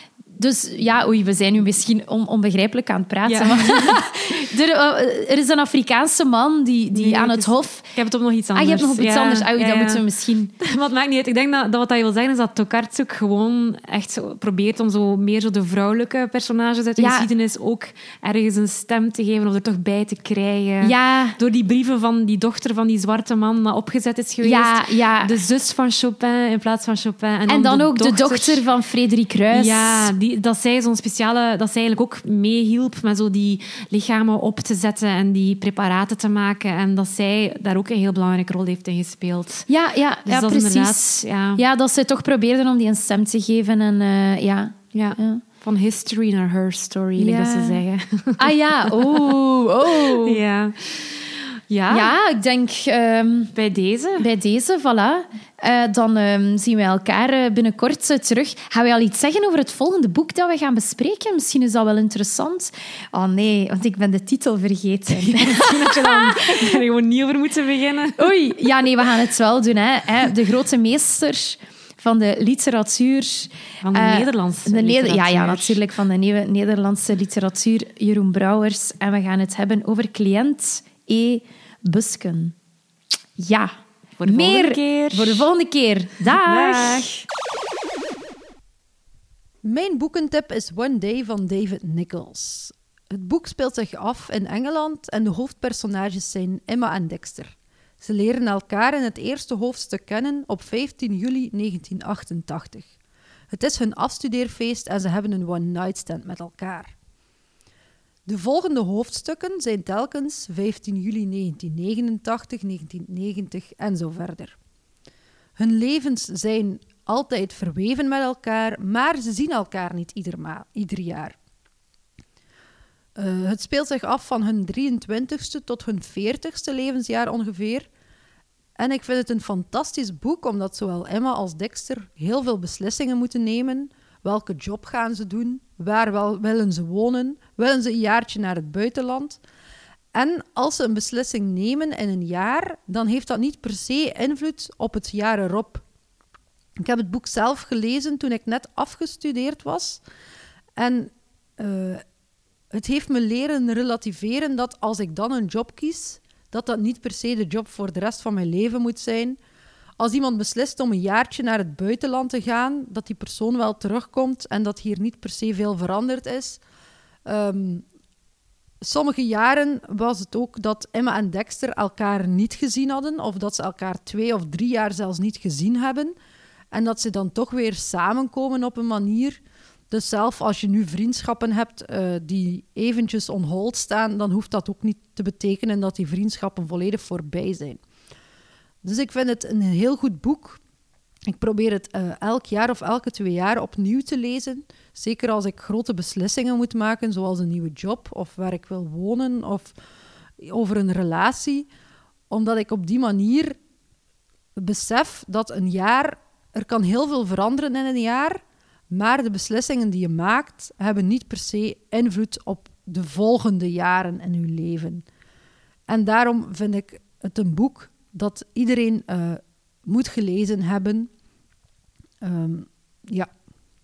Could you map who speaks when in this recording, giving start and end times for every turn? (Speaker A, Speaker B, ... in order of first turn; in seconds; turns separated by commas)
Speaker A: 0.3-7.9, Speaker B: 3.2-4.0, Speaker B: 6.9-10.0, Speaker A: 8.5-10.5, Speaker B: 10.6-28.6, Speaker A: 17.0-17.3, Speaker A: 20.8-21.4, Speaker A: 24.4-25.4, Speaker A: 27.5-30.1, Speaker B: 29.5-39.7, Speaker A: 39.7-45.4, Speaker B: 40.3-41.6, Speaker B: 44.9-49.4, Speaker A: 47.2-47.8, Speaker A: 48.4-50.4, Speaker B: 49.9-52.1, Speaker A: 51.9-53.5, Speaker B: 53.5-54.3, Speaker A: 54.2-66.8, Speaker B: 65.2-68.2, Speaker A: 68.2-82.5, Speaker B: 73.8-75.8, Speaker A: 83.4-83.7, Speaker B: 84.2-85.4, Speaker A: 84.2-87.1, Speaker B: 86.3-87.2, Speaker C: 89.6-102.9, Speaker C: 103.5-107.0, Speaker C: 108.3-114.6, Speaker C: 115.6-121.4, Speaker C: 123.2-127.9, Speaker C: 128.8-139.4, Speaker C: 140.1-145.8, Speaker C: 146.8-150.0, Speaker C: 150.8-152.0, Speaker C: 152.7-159.4, Speaker C: 160.0-166.6, Speaker C: 167.2-167.8, Speaker C: 168.8-176.2, Speaker C: 176.7-187.8, Speaker C: 188.8-190.6, Speaker C: 191.3-199.8, Speaker C: 200.4-201.7, Speaker C: 202.3-203.6, Speaker C: 204.6-215.1, Speaker C: 215.9-221.1, Speaker C: 222.2-223.3